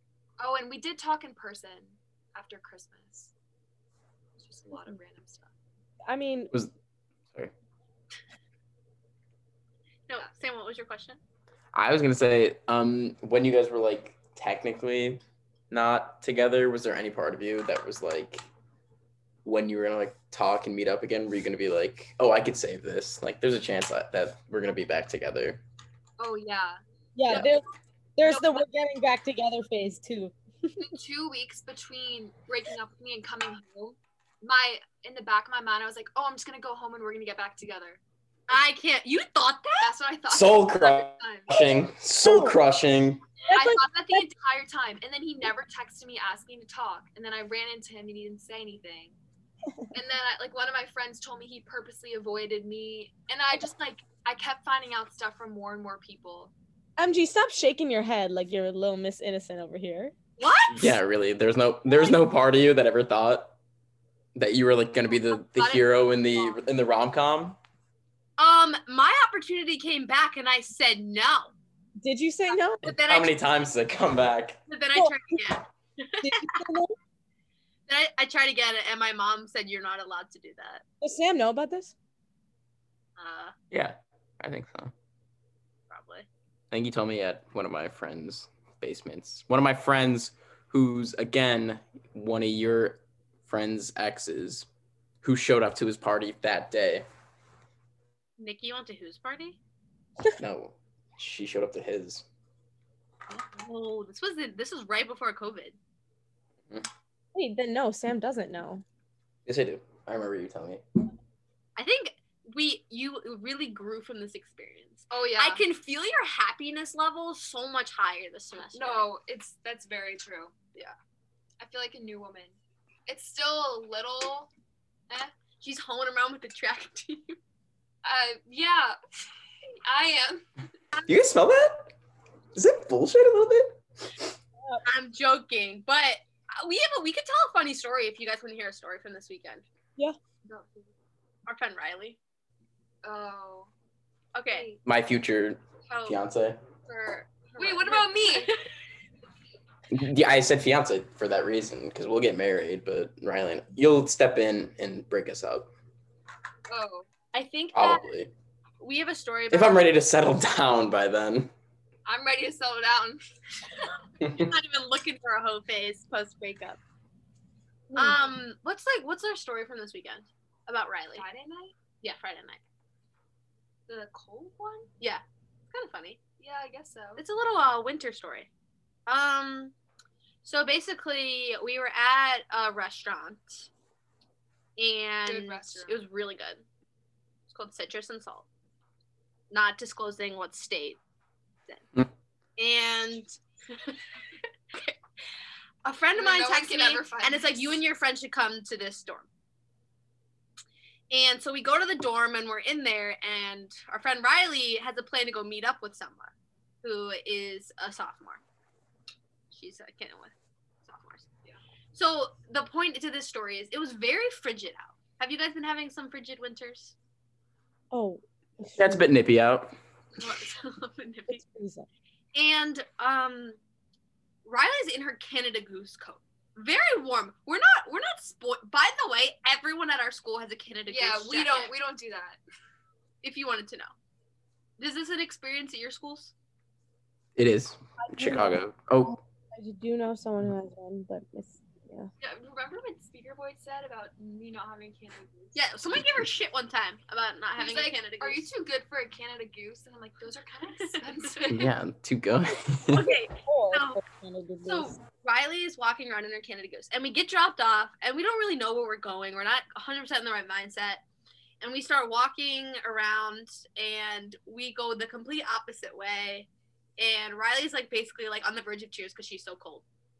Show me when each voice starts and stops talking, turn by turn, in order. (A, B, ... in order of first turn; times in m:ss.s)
0:00.4-0:03.3 A
0:04.4-0:05.5 A
0:06.1-0:06.5 B
0:10.1-0:11.2 C
0:11.7-0:18.4 D
0:19.4-0:25.6 D
0:26.2-0:26.8 A
0:27.2-0:27.6 B
0:28.2-0:30.3 B
0:28.3-0:28.6 A
0:30.8-0:38.0 A
0:38.5-0:39.9 C
0:39.8-0:41.6 A
0:40.3-0:43.2 D
0:42.2-0:42.6 B
0:43.5-0:44.2 B
0:43.5-0:49.2 A
0:49.9-0:56.5 A
0:57.0-1:00.1 B
1:00.4-1:01.0 C
1:00.7-1:03.6 D
1:04.4-1:07.6 D
1:05.5-1:06.6 A
1:08.4-1:11.5 C
1:12.0-1:12.8 B
1:12.8-1:13.3 C
1:12.8-1:14.6 D
1:14.7-1:16.6 C
1:15.0-1:15.4 B
1:16.2-1:17.0 B
1:17.9-1:20.8 C
1:21.0-1:21.9 B
1:23.2-1:23.5 C
1:23.7-1:24.9 D
1:25.9-1:26.3 C
1:26.7-1:34.7 D
1:35.2-1:37.1 D
1:38.4-1:39.6 C
1:40.4-1:42.2 D
1:43.3-1:45.8 C
1:47.4-1:48.8 B
1:49.5-1:50.8 D
1:51.8-1:59.1 C
1:55.1-1:55.6 A
1:58.7-2:00.5 A
2:01.6-2:02.6 A
2:03.1-2:04.5 A
2:05.1-2:05.4 A
2:05.6-2:07.4 C
2:08.0-2:09.0 A
2:09.8-2:10.5 A
2:11.1-2:11.9 D
2:12.6-2:14.2 D
2:14.8-2:19.6 C
2:20.5-2:20.9 A
2:21.5-2:22.2 C
2:23.0-2:23.7 A
2:24.4-2:24.7 C
2:24.5-2:24.8 A
2:24.8-2:26.6 D
2:25.9-2:26.2 C
2:26.9-2:28.5 A
2:27.6-2:28.7 C
2:29.9-2:35.7 D
2:36.7-2:37.1 A
2:37.3-2:38.1 C
2:37.7-2:38.3 D
2:38.8-2:39.9 C
2:39.5-2:41.5 D
2:42.1-2:43.2 A
2:44.2-2:44.5 D
2:44.2-2:46.8 C
2:47.9-2:51.3 C
2:48.0-2:48.4 A
2:51.1-2:51.8 A
2:52.0-2:52.6 C
2:53.9-2:54.9 A
2:55.0-2:56.2 C
2:56.4-2:57.2 A
2:57.2-2:58.5 C
2:59.1-2:59.7 C
3:00.4-3:03.7 C
3:04.8-3:06.6 C
3:05.2-3:06.0 A
3:07.5-3:08.5 C
3:09.5-3:11.0 C
3:12.6-3:14.0 C
3:14.7-3:15.0 C
3:15.8-3:19.3 C
3:16.1-3:17.8 A
3:21.1-3:26.3 C
3:26.8-3:28.4 C
3:29.5-3:30.3 C
3:30.8-3:31.3 C
3:31.9-3:37.0 C
3:37.9-3:39.0 B
3:38.8-3:39.8 D
3:40.2-3:41.4 C
3:41.3-3:41.9 B
3:42.4-3:43.6 C
3:44.4-3:51.7 C
3:50.9-3:52.4 A
3:53.2-3:53.9 C
3:54.8-3:56.3 C
3:57.4-3:59.2 D
3:58.0-3:58.6 B
3:59.5-4:02.1 B
4:02.2-4:05.9 A
4:05.6-4:08.4 C
4:07.6-4:11.7 A
4:10.8-4:11.5 C
4:11.5-4:13.1 D
4:12.9-4:14.0 C
4:13.4-4:15.0 B
4:14.6-4:21.0 C
4:21.6-4:29.8 C